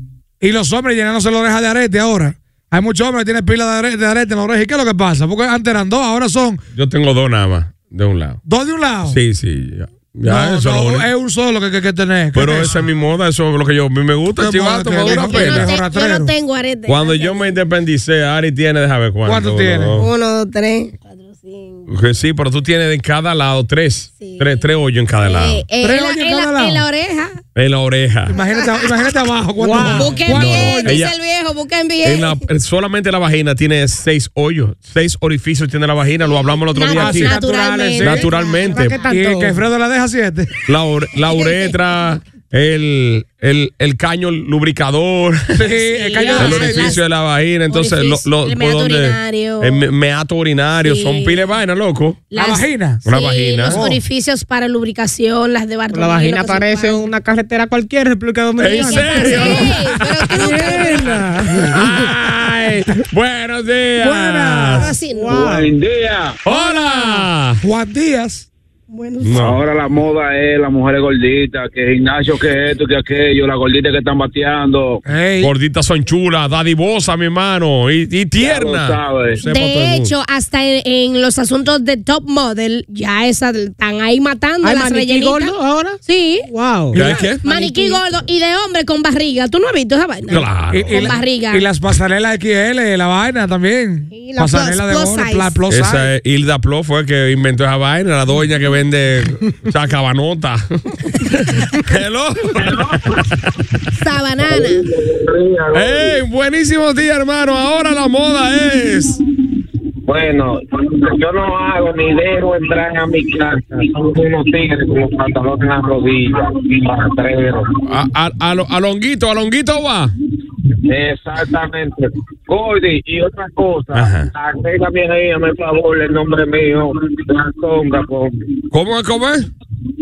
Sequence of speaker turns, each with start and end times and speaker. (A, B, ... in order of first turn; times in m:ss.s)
0:00.4-0:06.6 A
0:06.8-0:08.4 B
0:08.4-0:09.2 A
0:09.0-0:11.1 B
0:10.2-0:12.9 A
0:12.3-0:15.7 B
0:14.4-0:16.3 A
0:15.0-0:17.6 C
0:16.9-0:20.1 B
0:19.2-0:20.0 A
0:20.0-0:21.9 C
0:21.9-0:25.6 B
0:24.2-0:24.6 C
0:25.2-0:27.4 C
0:25.8-0:26.9 A
0:27.6-0:28.4 B
0:28.3-0:31.0 A
0:28.4-0:29.1 C
0:29.6-0:30.3 D
0:29.7-0:32.4 C
0:30.3-0:31.2 B
0:32.0-0:37.4 B
0:36.7-0:39.0 C
0:36.9-0:38.3 A
0:38.0-0:39.0 B
0:38.7-0:39.6 D
0:39.1-0:40.5 A
0:40.7-0:45.7 B
0:41.3-0:41.8 C
0:45.6-0:47.0 A
0:45.6-0:47.0 C
0:46.4-0:52.3 B
0:47.7-0:49.8 C
0:50.8-0:51.5 C
0:52.3-0:57.1 C
0:52.4-0:53.0 A
0:53.0-0:53.8 B
0:53.7-0:54.0 A
0:55.9-0:59.7 D
0:58.6-1:00.1 B
0:58.8-1:01.3 C
1:00.3-1:01.7 D
1:01.7-1:04.9 B
1:04.0-1:04.9 A
1:04.8-1:05.3 C
1:05.0-1:05.8 D
1:05.3-1:06.4 E
1:06.4-1:07.6 B
1:06.5-1:07.2 C
1:07.6-1:08.5 A
1:08.9-1:09.6 C
1:09.2-1:09.6 B
1:09.4-1:15.0 E
1:15.1-1:15.5 A
1:15.4-1:20.1 B
1:18.4-1:19.4 E
1:19.5-1:31.7 C
1:24.6-1:28.0 D
1:27.0-1:27.4 B
1:30.3-1:31.2 B
1:30.7-1:36.1 A
1:34.1-1:35.6 C
1:35.7-1:43.2 B
1:42.6-1:43.0 E
1:44.0-1:44.9 C
1:44.4-1:46.2 E
1:45.7-1:49.2 B
1:50.1-1:57.7 E
1:57.8-2:00.1 B
2:00.8-2:08.5 E
2:03.9-2:04.3 B
2:08.7-2:09.5 B